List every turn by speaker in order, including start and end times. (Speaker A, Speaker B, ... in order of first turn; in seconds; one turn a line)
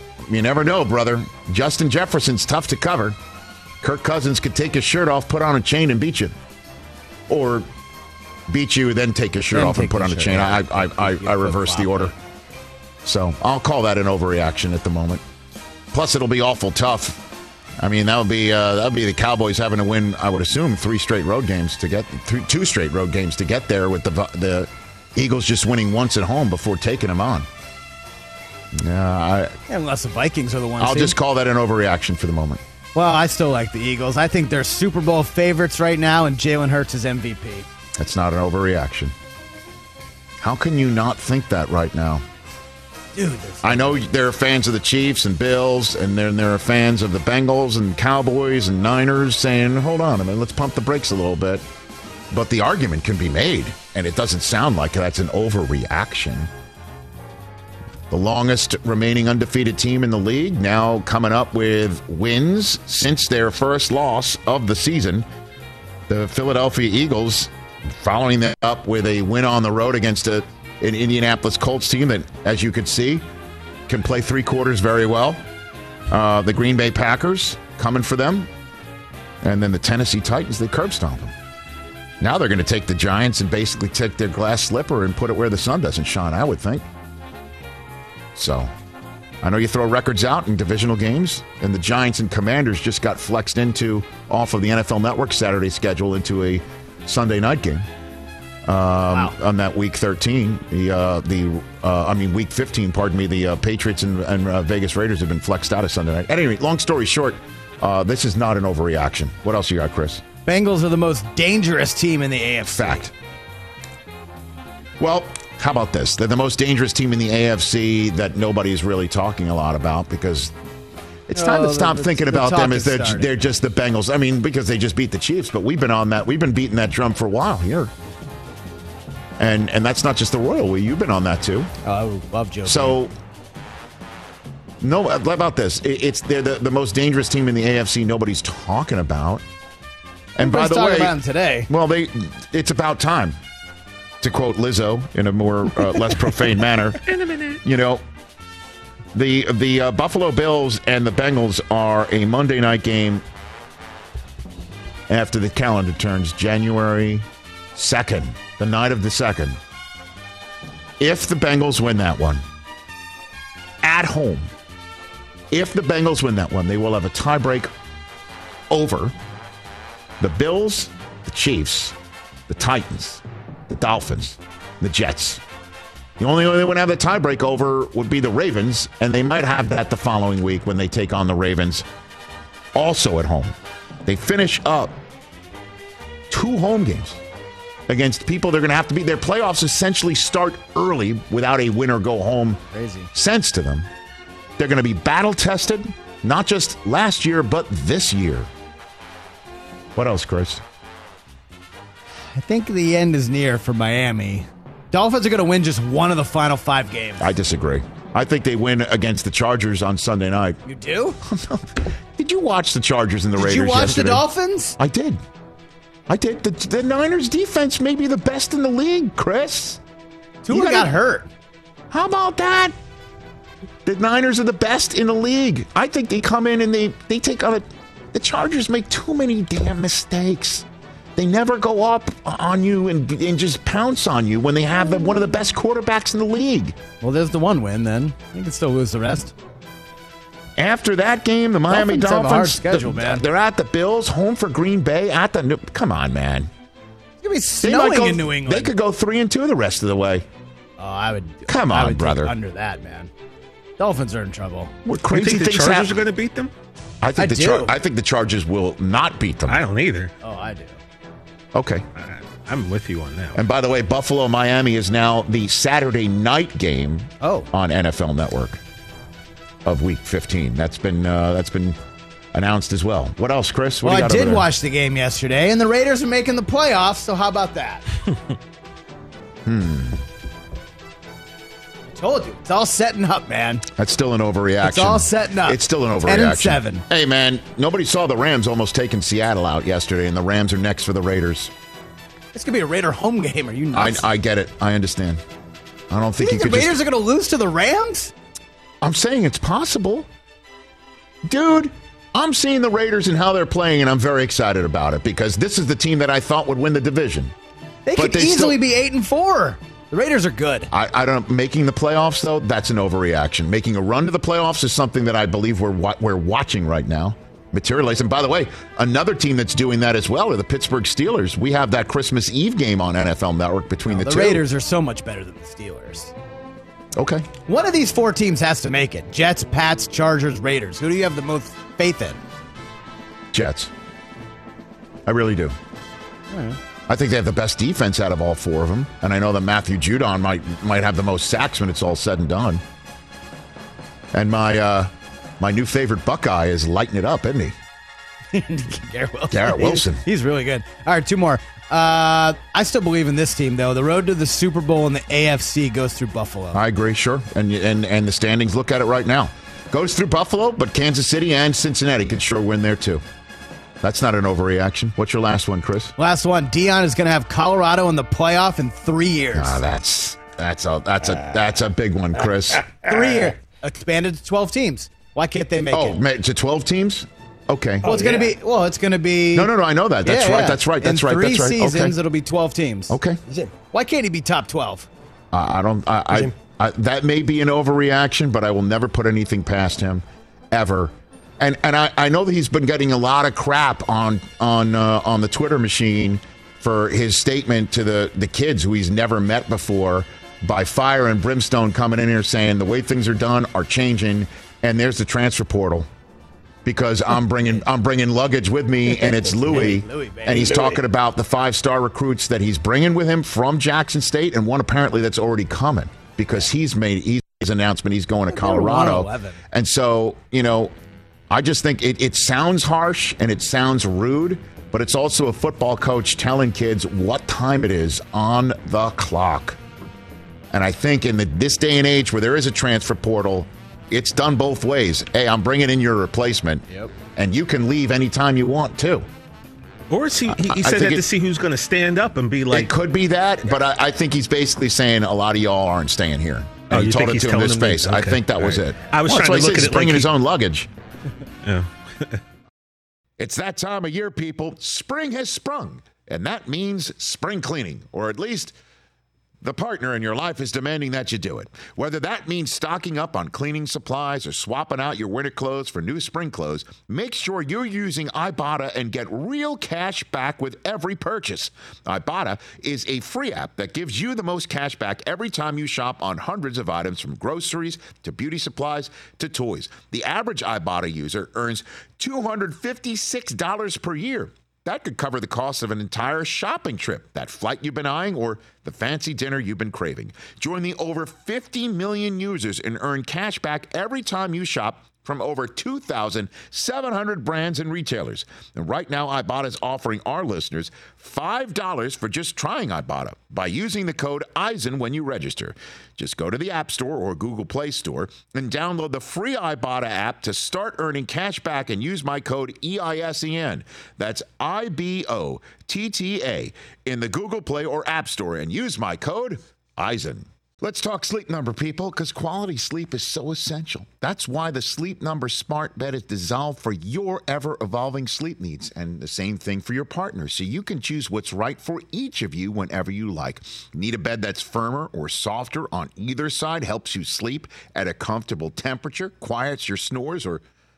Speaker A: 0.3-3.2
Speaker A: 3.8-6.3
Speaker A: 7.3-7.7
Speaker A: 8.5-12.1
Speaker B: 9.5-12.1
Speaker A: 13.0-15.2
Speaker A: 15.9-17.3
Speaker A: 17.8-27.5
Speaker A: 28.7-29.6
Speaker B: 29.7-31.2
Speaker A: 30.8-32.6
Speaker B: 33.0-37.7
Speaker A: 38.0-39.1
Speaker A: 40.4-42.2
Speaker B: 43.1-44.0
Speaker A: 43.6-51.6
Speaker A: 52.3-56.5
Speaker A: 58.1-65.3
Speaker A: 66.1-73.2
Speaker A: 73.9-75.4
Speaker A: 76.1-78.5
Speaker A: 79.4-81.3
Speaker A: 82.2-86.8
Speaker A: 88.3-88.7
Speaker A: 89.4-97.9
Speaker A: 98.7-110.2
Speaker B: 110.5-113.1
Speaker A: 112.7-113.1
Speaker A: 115.0-120.5
Speaker A: 121.3-127.9
Speaker B: 121.3-123.3
Speaker A: 129.4-131.7
Speaker B: 131.8-133.0
Speaker A: 132.7-133.1
Speaker A: 134.8-139.4
Speaker A: 140.4-141.2
Speaker B: 140.4-141.7
Speaker A: 141.7-143.4
Speaker A: 144.2-147.0
Speaker C: 147.0-147.6
Speaker A: 147.6-148.0
Speaker A: 149.1-153.2
Speaker A: 155.1-159.6
Speaker A: 161.0-162.4
Speaker A: 163.8-164.5
Speaker A: 165.5-167.7
Speaker A: 168.7-169.2
Speaker A: 170.2-171.9
Speaker A: 172.5-175.4
Speaker A: 176.2-181.9
Speaker A: 182.8-183.5
Speaker A: 184.1-185.0
Speaker A: 186.3-187.2
Speaker A: 187.9-192.6
Speaker B: 192.7-193.1
Speaker A: 193.1-193.9
Speaker A: 194.6-198.5
Speaker A: 199.9-200.6
Speaker B: 202.3-207.3
Speaker A: 207.2-210.6
Speaker B: 210.7-211.2
Speaker A: 211.2-214.2
Speaker B: 213.4-214.8
Speaker A: 214.8-215.2
Speaker A: 216.1-219.8
Speaker B: 220.4-221.3
Speaker A: 220.5-220.9
Speaker A: 221.9-222.7
Speaker A: 223.8-236.8
Speaker B: 237.0-239.4
Speaker A: 240.6-246.5
Speaker B: 241.7-243.2
Speaker B: 247.2-248.7
Speaker A: 247.6-250.3
Speaker B: 250.8-253.1
Speaker A: 251.5-252.3
Speaker B: 253.8-254.7
Speaker A: 254.8-256.0
Speaker C: 255.1-256.5
Speaker A: 257.0-259.6
Speaker B: 257.2-257.7
Speaker C: 259.5-260.1
Speaker B: 260.2-260.8
Speaker A: 261.5-261.9
Speaker C: 261.9-263.4
Speaker A: 263.4-268.6
Speaker B: 267.2-267.5
Speaker A: 269.6-271.8
Speaker A: 272.3-274.5
Speaker B: 273.8-277.9
Speaker A: 279.4-280.0
Speaker B: 281.9-283.6
Speaker A: 283.8-291.5
Speaker B: 284.6-286.8
Speaker B: 292.3-294.1
Speaker A: 293.7-295.2
Speaker A: 295.9-296.7
Speaker B: 296.2-298.1
Speaker A: 298.8-300.1
Speaker A: 301.2-307.3
Speaker B: 307.9-310.7
Speaker A: 307.9-308.6
Speaker A: 310.7-324.4
Speaker B: 323.9-326.1
Speaker A: 326.9-327.3
Speaker B: 327.5-332.2
Speaker A: 333.3-333.7
Speaker A: 335.1-335.6
Speaker B: 336.3-336.6
Speaker A: 336.9-342.6
Speaker A: 344.1-347.6
Speaker B: 348.3-356.6
Speaker A: 349.3-350.0
Speaker A: 356.5-363.0
Speaker A: 363.8-365.9
Speaker B: 366.0-369.6
Speaker A: 369.3-372.9
Speaker B: 372.8-376.0
Speaker A: 375.7-378.0
Speaker B: 377.8-379.5
Speaker A: 379.3-381.9
Speaker B: 380.0-384.9
Speaker A: 382.9-383.2
Speaker A: 385.3-405.9
Speaker A: 406.6-420.7
Speaker B: 408.9-410.8
Speaker B: 418.3-419.4
Speaker A: 421.3-429.6
Speaker A: 430.5-439.1
Speaker C: 439.9-442.7
Speaker A: 440.3-441.1
Speaker A: 442.5-450.7
Speaker C: 446.7-450.1
Speaker C: 451.4-452.2
Speaker A: 453.2-458.6
Speaker A: 459.4-540.4